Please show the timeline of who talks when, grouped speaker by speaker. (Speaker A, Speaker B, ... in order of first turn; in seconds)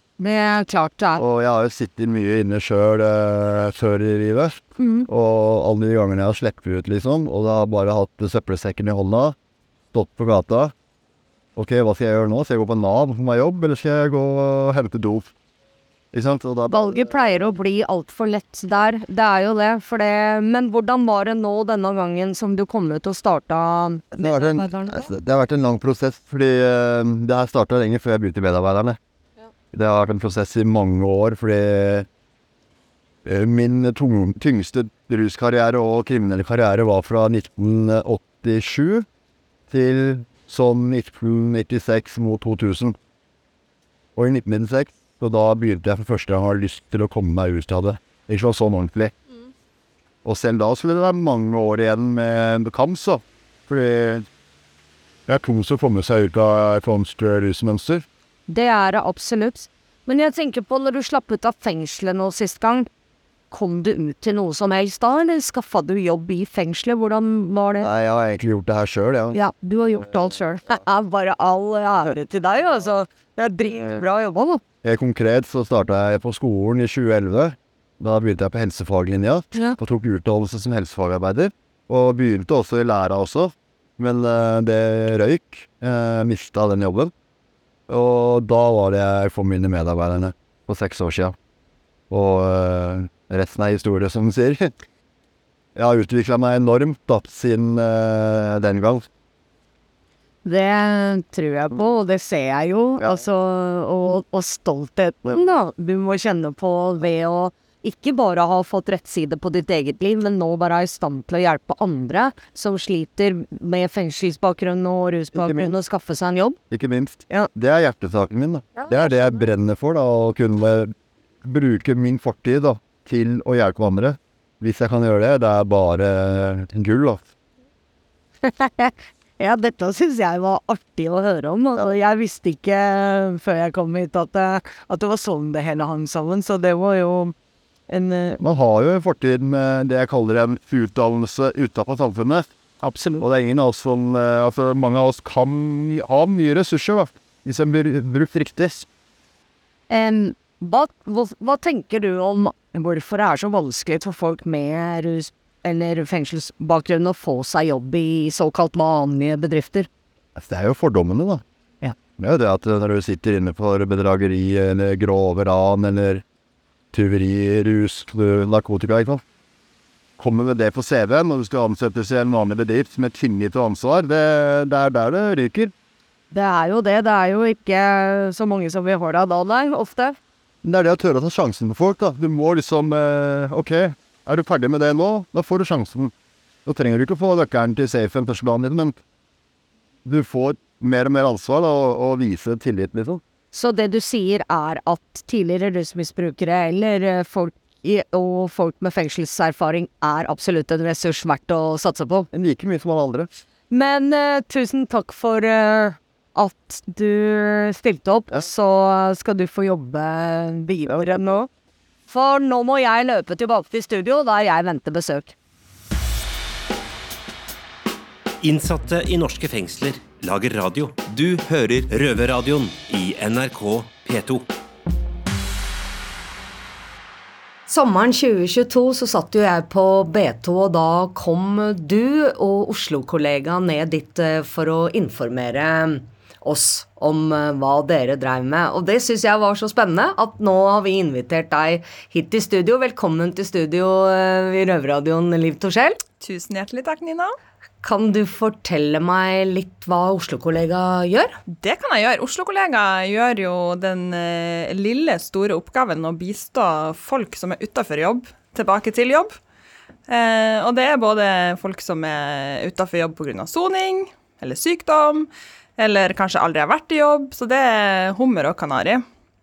Speaker A: 0.2-1.2, 4.8-5.1, 16.7-25.1, 58.5-62.9, 63.5-67.9, 69.3-74.6, 100.4-116.6, 128.4-137.3, 137.9-138.4, 142.8-143.2, 149.9-159.9, 176.3-180.2, 193.5-202.3, 203.7-211.5, 212.1-215.3
Speaker B: 1.2-9.3, 9.9-10.7, 11.6-15.3, 16.1-17.1, 24.2-29.0, 29.7-32.1, 33.2-39.0, 39.7-43.0, 44.1-49.1, 50.2-54.3, 55.3-58.0, 67.8-69.4, 74.8-87.1, 87.9-91.3, 92.1-94.7, 95.7-99.1, 103.0-103.2, 115.3-115.7, 116.7-127.2, 138.4-142.5, 143.2-148.9, 160.3-161.4, 162.2-166.2, 166.9-169.2, 170.2-175.7, 180.6-186.1, 186.7-189.0, 190.0-193.2, 202.3-203.3
Speaker C: 218.4-224.5
Speaker D: 227.7-246.0, 247.8-251.3
Speaker E: 246.2-247.3, 251.5-259.4, 260.1-269.0